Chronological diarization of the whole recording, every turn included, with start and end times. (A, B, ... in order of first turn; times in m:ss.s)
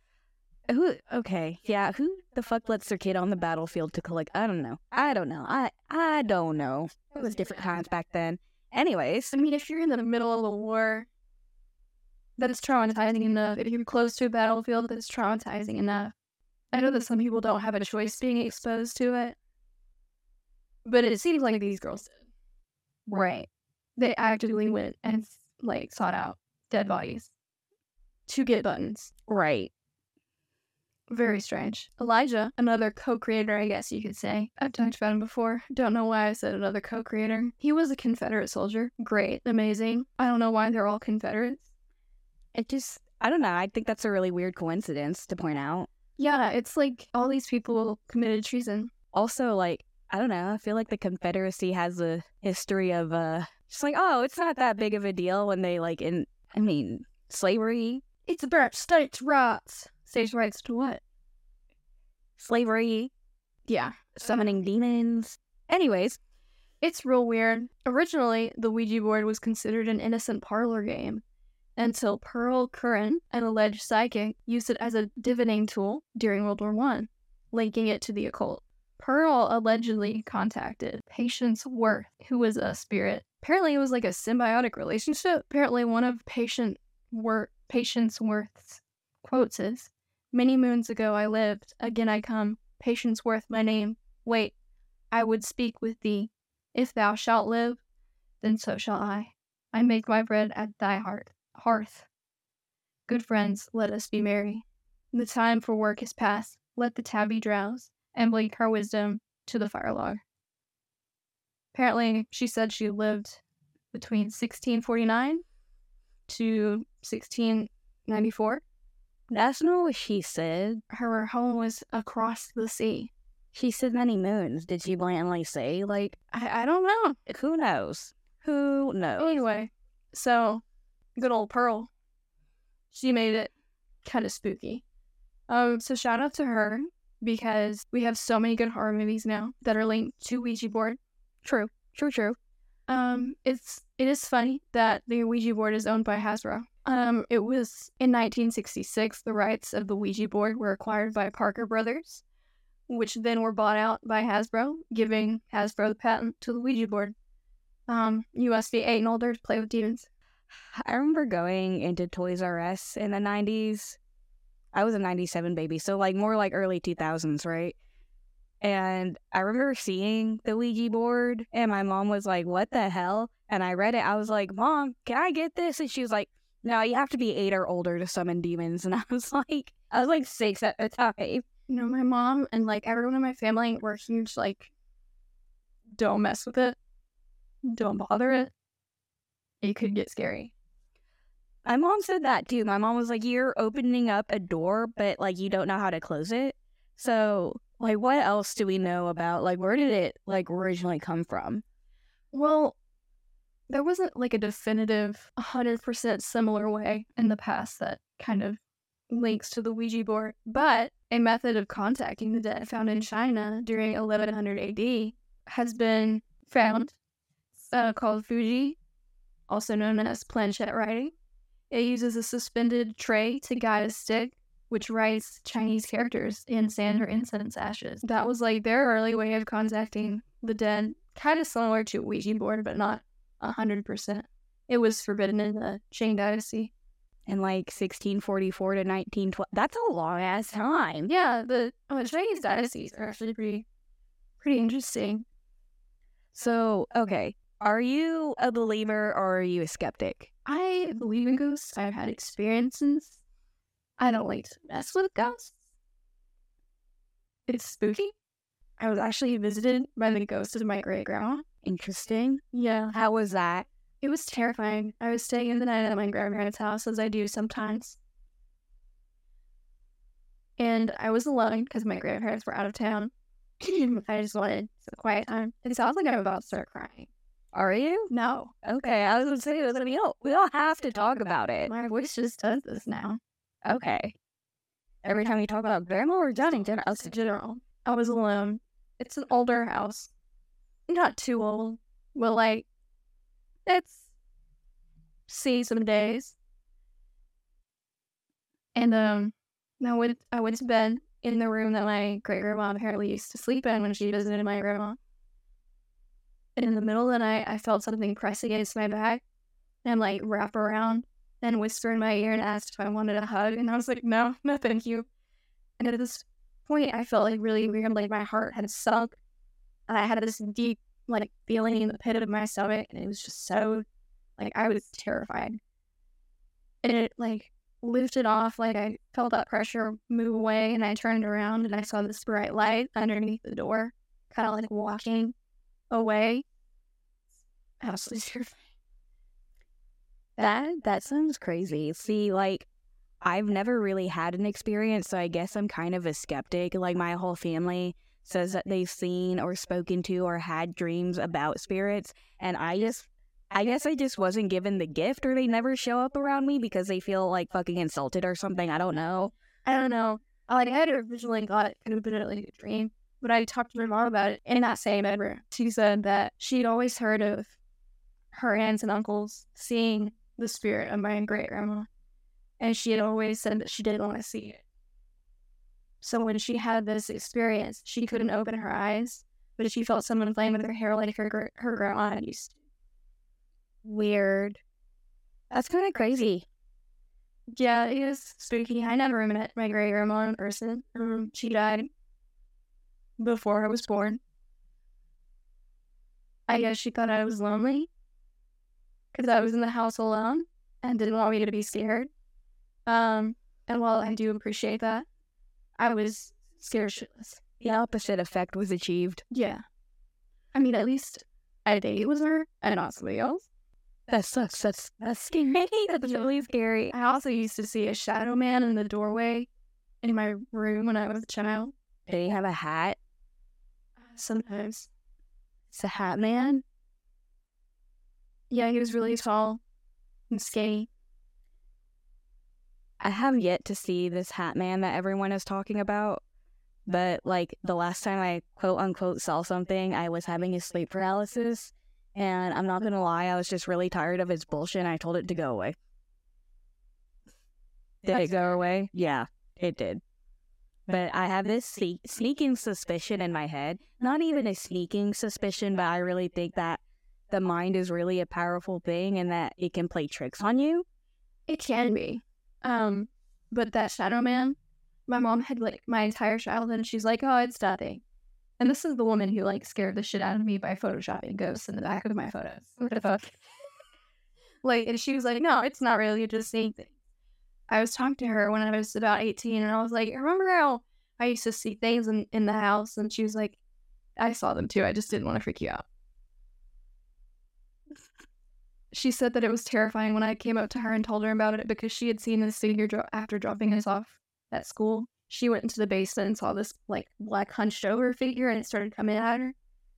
0:00.7-0:09.3 A
0:09.3-0:11.1 B
0:12.4-0:16.1 B
0:16.7-0:19.4 B
0:20.8-0:22.2 B
0:23.1-0:23.5 A
0:24.0-0:27.3 B
0:28.3-0:29.1 B
0:29.3-0:29.7 A
0:31.1-0:41.7 B
0:42.5-0:45.9 A
0:46.2-0:48.9 B
0:49.1-0:58.0 A
0:58.2-1:01.0 B
1:02.4-1:03.1 A
1:03.7-1:04.3 B
1:04.2-1:06.2 A
1:06.8-1:11.2 B
1:11.8-1:34.5 B
1:35.1-1:37.8 B
1:38.4-1:42.1 B
1:43.1-1:50.2 B
1:51.7-1:53.4 B
1:53.9-1:55.4 B
1:56.3-1:58.6 B
1:59.3-2:00.8 A
2:00.9-2:03.1 B
2:03.5-2:06.2 A
2:06.3-2:07.2 B
2:07.3-2:09.4 A
2:09.2-2:10.6 B
2:11.2-2:11.9 B
2:12.9-2:13.5 B
2:14.0-2:14.8 B
2:15.5-2:21.0 B
2:21.4-2:22.4 A
2:22.9-2:32.2 B
2:32.9-2:37.2 B
2:37.9-2:40.1 B
2:40.7-2:44.0 A
2:44.7-2:47.8 A
2:48.6-3:01.5 A
3:01.7-3:04.7 B
3:06.0-3:06.8 B
3:07.7-3:08.5 B
3:09.6-3:10.5 B
3:11.6-3:21.6 A
3:22.3-3:22.8 B
3:23.7-3:37.0 B
3:37.6-3:38.8 B
3:39.5-3:41.1 B
3:41.7-3:56.7 B
3:57.3-4:01.1 A
4:01.1-4:03.6 B
4:04.4-4:05.2 B
4:06.3-4:10.3 A
4:10.4-4:13.2 B
4:14.0-4:15.6 B
4:17.5-4:18.1 B
4:18.8-4:21.4 B
4:21.6-4:22.4 A
4:22.5-4:23.0 B
4:22.9-4:23.7 A
4:24.0-4:28.0 B
4:30.6-4:37.1 B
4:37.5-4:38.1 A
4:38.1-4:38.5 B
4:38.6-4:41.7 A
4:41.7-4:43.2 B
4:43.6-4:44.2 A
4:45.0-4:47.1 A
4:46.5-4:50.1 B
4:50.9-4:52.7 B
4:53.7-4:54.0 B
4:55.3-4:56.4 B
4:58.8-5:05.0 B
5:06.6-5:09.2 B
5:09.8-5:15.1 B
5:15.8-5:19.2 B
5:19.9-5:23.8 B
5:24.4-5:25.6 B
5:26.8-5:35.3 B
5:35.9-5:36.4 B
5:37.8-5:38.6 B
5:40.4-5:42.7 A
5:43.2-5:59.3 A
5:59.6-6:07.6 B
6:08.3-6:11.9 B
6:12.6-6:14.6 B
6:16.0-6:22.6 B
6:23.8-6:24.6 A
6:25.5-6:26.4 A
6:27.5-6:31.9 B
6:33.2-6:34.2 B
6:36.5-6:37.9 B
6:39.1-6:42.1 B
6:42.9-6:45.1 B
6:45.8-6:47.4 B
6:47.6-6:49.2 A
6:49.3-6:49.6 B
6:50.5-6:53.5 B
6:54.1-6:56.9 A
6:56.9-6:59.5 B
7:00.0-7:01.7 B
7:02.1-7:03.0 A
7:04.1-7:04.9 B
7:05.7-7:06.6 A
7:08.5-7:09.6 B
7:10.3-7:10.9 B
7:13.0-7:16.2 A
7:16.9-7:25.8 A
7:28.0-7:30.0 A
7:30.9-7:40.8 A
7:41.5-7:48.0 B
7:48.6-7:53.4 B
7:54.6-7:56.9 B
7:57.7-8:03.6 B
8:04.2-8:05.8 B
8:08.9-8:19.6 B